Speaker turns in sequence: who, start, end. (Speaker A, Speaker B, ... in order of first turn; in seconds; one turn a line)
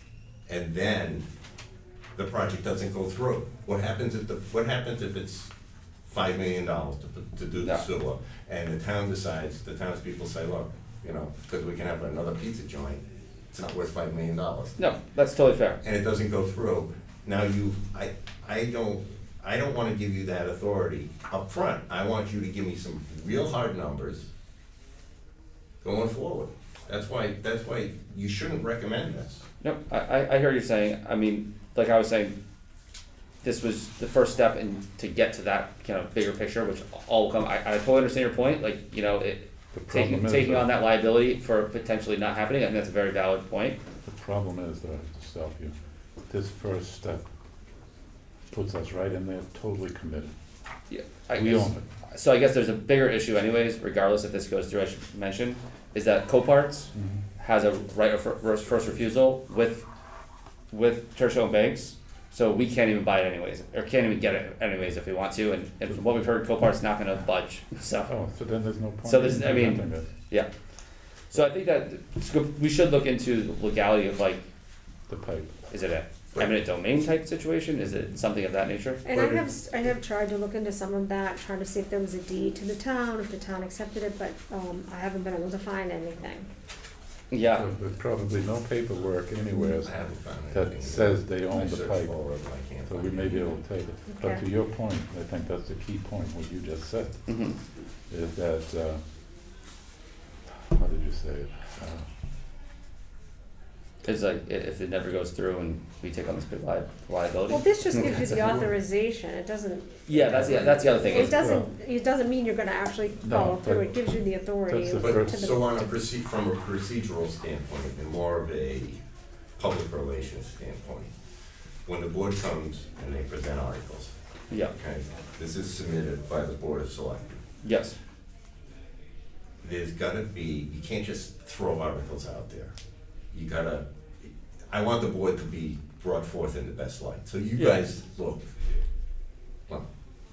Speaker A: 0.5-1.2
Speaker A: 2.1-5.5
Speaker A: 6.0-13.0
Speaker A: 13.5-14.8
Speaker B: 14.8-15.8
Speaker A: 15.8-24.3
Speaker A: 25.8-29.4
Speaker B: 29.6-32.4
Speaker B: 33.4-43.8
Speaker C: 39.7-40.7
Speaker C: 44.0-45.7
Speaker C: 46.3-47.2
Speaker C: 48.5-50.3
Speaker B: 50.9-59.9
Speaker C: 51.4-51.8
Speaker C: 56.9-57.2
Speaker B: 60.7-68.1
Speaker C: 68.1-70.1
Speaker B: 69.0-70.5
Speaker B: 71.3-74.4
Speaker C: 75.1-75.6
Speaker B: 75.7-79.0
Speaker D: 79.0-86.5
Speaker A: 79.1-79.5
Speaker B: 87.3-87.7
Speaker C: 87.5-90.0
Speaker A: 89.5-93.5
Speaker C: 90.5-92.2
Speaker C: 92.9-97.3
Speaker D: 94.1-94.4
Speaker B: 97.3-97.6
Speaker C: 98.1-99.0
Speaker C: 100.7-102.1
Speaker B: 104.0-108.3
Speaker D: 107.5-115.7
Speaker A: 108.3-108.7
Speaker B: 110.1-111.4
Speaker C: 110.4-111.7
Speaker C: 113.2-114.0
Speaker C: 114.7-115.6
Speaker A: 115.0-119.0
Speaker A: 119.6-121.1
Speaker A: 121.9-124.1
Speaker A: 124.8-127.4
Speaker B: 127.6-128.0
Speaker A: 129.6-132.7
Speaker A: 133.3-138.5